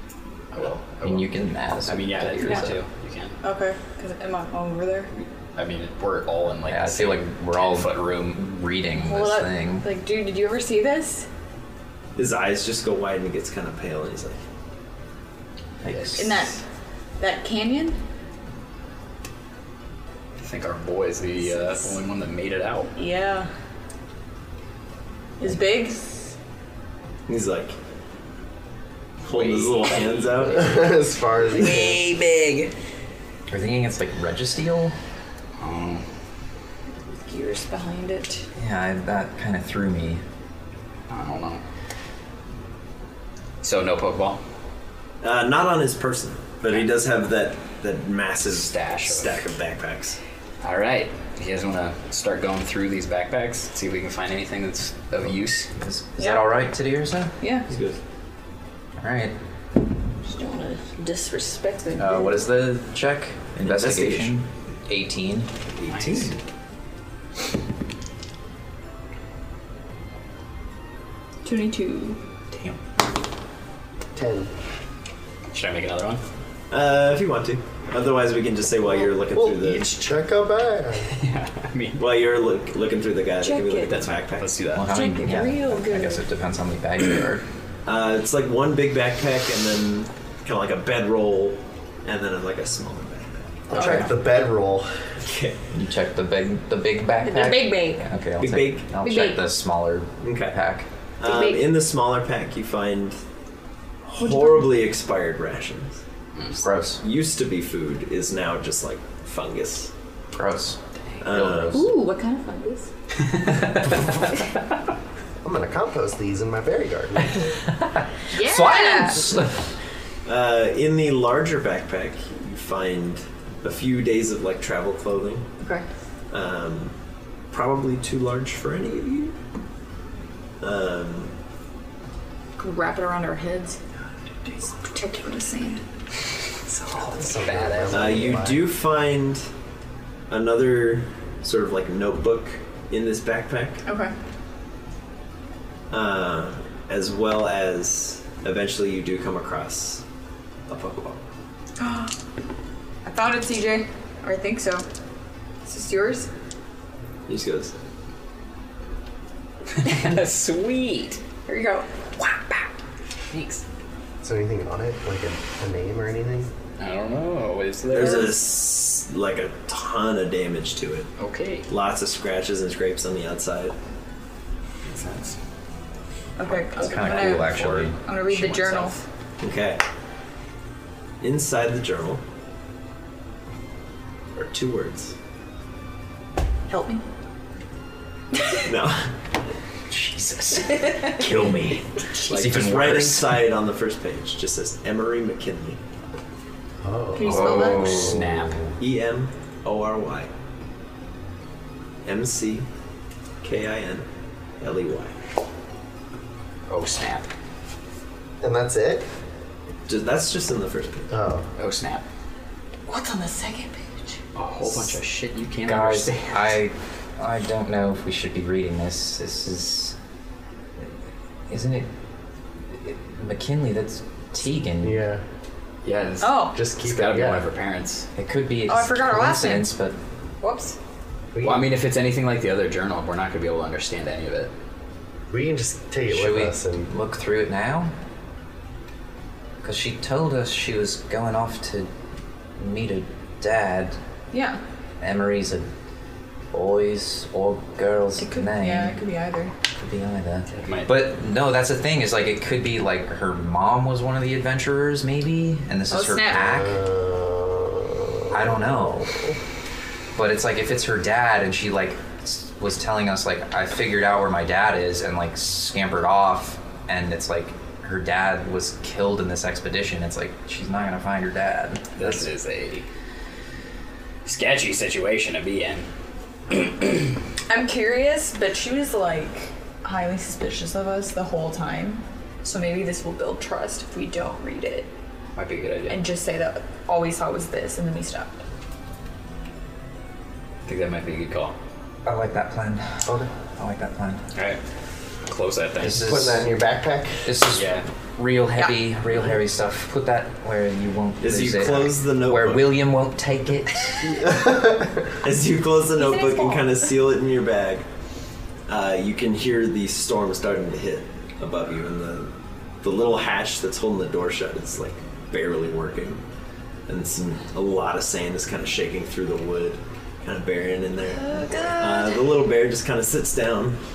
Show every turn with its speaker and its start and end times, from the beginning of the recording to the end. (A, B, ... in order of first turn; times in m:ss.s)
0:00.5-0:03.4 A
0:01.0-0:02.8 B
0:03.4-0:05.1 C
0:05.1-0:08.4 A
0:06.7-0:09.9 B
0:08.9-0:11.3 C
0:12.2-0:14.4 D
0:15.8-0:16.5 B
0:15.9-0:16.3 A
0:16.2-0:16.6 C
0:17.2-0:18.0 C
0:20.4-0:22.9 A
0:21.4-0:21.9 C
0:23.0-0:23.5 C
0:25.4-0:26.0 C
0:27.3-0:27.8 D
0:29.2-0:30.8 D
0:29.3-0:31.0 A
0:30.5-0:32.1 E
0:31.6-0:32.0 C
0:33.5-0:35.0 B
0:35.6-0:36.1 A
0:37.0-0:38.5 C
0:38.6-0:40.2 B
0:41.1-0:41.6 A
0:43.6-0:44.4 A
0:45.2-0:50.2 D
0:48.4-0:49.5 A
0:50.6-0:55.7 A
0:55.8-0:57.3 B
0:56.2-0:56.5 C
0:57.4-0:57.7 C
0:57.7-0:58.0 D
0:59.0-0:59.4 B
1:00.2-1:02.4 C
1:02.0-1:06.3 B
1:03.6-1:04.3 D
1:05.8-1:06.4 A
1:11.4-1:12.2 C
1:14.2-1:14.5 E
1:15.5-1:16.2 A
1:16.7-1:20.0 D
1:19.3-1:21.1 E
1:21.1-1:22.1 A
1:22.0-1:24.6 D
1:23.4-1:24.0 C
1:23.8-1:25.0 A
1:24.7-1:27.4 B
1:24.9-1:26.2 C
1:27.9-1:33.7 D
1:33.7-1:35.1 E
1:33.7-1:34.1 C
1:33.8-1:34.1 A
1:35.2-1:35.7 D
1:35.7-1:40.9 B
1:37.2-1:38.0 C
1:38.4-1:38.9 D
1:39.0-1:39.4 C
1:40.2-1:40.6 D
1:41.2-1:43.2 D
1:41.3-1:41.6 C
1:44.0-1:46.0 D
1:44.2-1:44.7 C
1:46.4-1:46.6 A
1:46.6-1:47.0 B
1:47.0-1:49.9 D
1:50.3-1:51.9 B
1:51.2-1:51.9 D
1:51.7-1:52.9 C
1:53.2-1:54.0 A
1:55.4-1:57.5 E
1:57.4-1:59.7 B
1:58.3-1:59.3 C
2:00.2-2:05.5 D
2:05.6-2:05.9 C
2:06.3-2:07.0 D
2:07.5-2:09.4 D
2:10.6-2:11.3 D
2:12.6-2:13.8 C
2:14.7-2:15.8 C
2:16.7-2:18.3 A
2:17.1-2:18.7 E
2:17.9-2:19.5 D
2:20.3-2:23.8 D
2:23.9-2:24.1 C
2:25.9-2:30.0 D
2:30.7-2:31.2 D
2:31.8-2:32.2 C
2:33.0-2:34.9 C
2:35.6-2:36.3 C
2:37.3-2:37.8 D
2:39.8-2:41.2 A
2:41.5-2:41.9 C
2:42.2-2:42.7 A
2:43.3-2:43.6 A
2:44.2-2:46.5 E
2:46.8-2:48.4 A
2:47.9-2:51.1 D
2:47.9-2:48.3 C
2:51.2-2:51.7 A
2:51.7-2:53.8 D
2:54.8-2:55.4 A
2:56.4-2:59.0 C
2:56.7-2:59.0 A
2:56.8-2:58.0 B
2:59.4-2:59.8 D
3:01.2-3:02.2 D
3:04.4-3:05.1 D
3:06.7-3:07.0 C
3:08.6-3:09.1 D
3:09.9-3:13.5 B
3:10.8-3:11.1 C
3:12.2-3:15.8 D
3:16.8-3:18.7 E
3:17.2-3:18.1 C
3:17.2-3:18.1 B
3:17.3-3:18.6 A
3:18.8-3:20.3 D
3:22.0-3:22.7 D
3:23.4-3:24.1 D
3:24.6-3:25.1 D
3:26.7-3:27.3 A
3:28.4-3:29.1 E
3:29.9-3:31.1 D
3:31.1-3:31.5 E
3:31.6-3:32.0 A
3:32.9-3:34.2 C
3:34.4-3:36.6 A
3:35.7-3:40.0 B
3:41.5-3:41.9 B
3:42.7-3:45.0 B
3:44.8-3:45.2 E
3:45.8-3:48.1 A
3:46.2-3:46.6 C
3:46.5-3:47.5 E
3:48.2-3:50.0 B
3:48.7-3:49.7 C
3:50.4-3:50.8 C
3:51.3-3:51.7 E
3:51.4-3:54.5 A
3:55.3-3:56.9 E
3:56.1-3:57.9 B
3:59.6-4:01.9 B
4:02.6-4:04.0 B
4:04.3-4:04.6 C
4:05.0-4:05.7 B
4:06.5-4:09.0 B
4:08.2-4:09.6 C
4:09.7-4:16.8 B
4:10.5-4:11.0 A
4:15.9-4:16.5 C
4:16.3-4:19.4 E
4:18.3-4:19.2 B
4:20.2-4:32.3 B
4:32.0-4:32.9 A
4:34.2-4:35.9 A
4:36.5-4:37.1 A
4:37.5-4:44.9 C
4:45.4-4:46.0 A
4:45.9-4:48.4 C
4:50.7-4:51.6 A
4:52.0-4:54.2 B
4:53.0-4:53.3 E
4:54.4-4:54.6 A
4:55.2-4:56.2 A
4:55.8-4:56.4 B
4:55.8-4:57.3 E
4:57.2-5:04.1 B
4:57.5-4:57.8 A
5:01.2-5:02.8 D
5:04.1-5:05.1 E
5:05.2-5:07.9 D
5:06.0-5:06.8 C
5:08.7-5:16.2 D
5:16.9-5:23.8 D
5:21.1-5:22.3 C